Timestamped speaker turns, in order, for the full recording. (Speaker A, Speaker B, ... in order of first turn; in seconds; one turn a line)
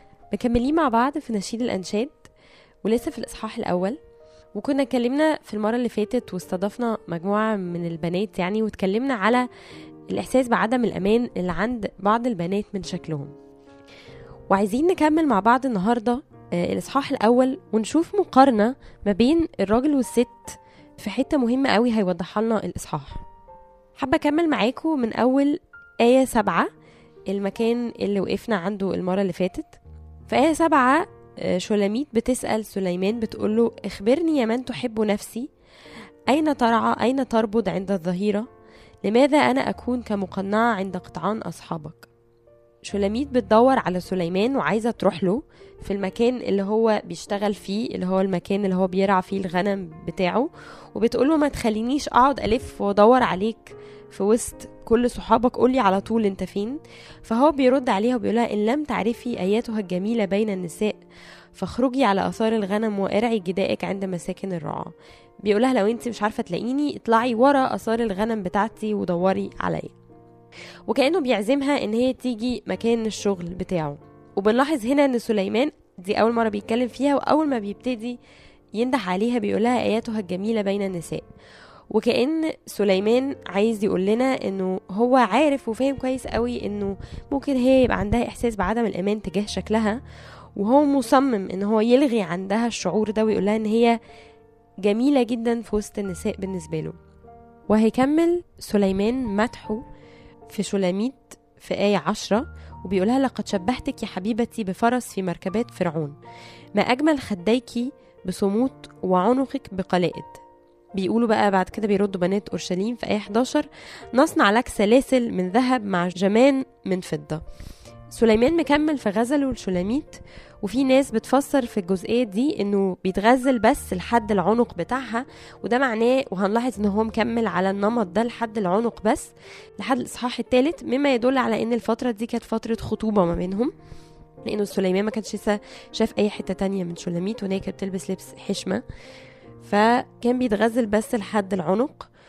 Speaker A: 0.3-2.3
Speaker A: 2.8-4.0
Speaker A: 4.5-9.5
Speaker A: 10.1-13.3
Speaker A: 14.5-23.2
Speaker A: 24.0-26.7
Speaker A: 27.3-35.5
Speaker A: 36.3-38.5
Speaker A: 39.0-42.1
Speaker A: 42.8-61.0
Speaker A: 61.5-69.9
Speaker A: 70.9-78.2
Speaker A: 78.7-81.3
Speaker A: 81.9-90.0
Speaker A: 90.5-94.0
Speaker A: 94.8-97.0
Speaker A: 97.7-99.8
Speaker A: 100.5-106.2
Speaker A: 106.7-110.4
Speaker A: 111.0-117.4
Speaker A: 118.1-133.7
Speaker A: 134.4-138.8
Speaker A: 139.6-142.1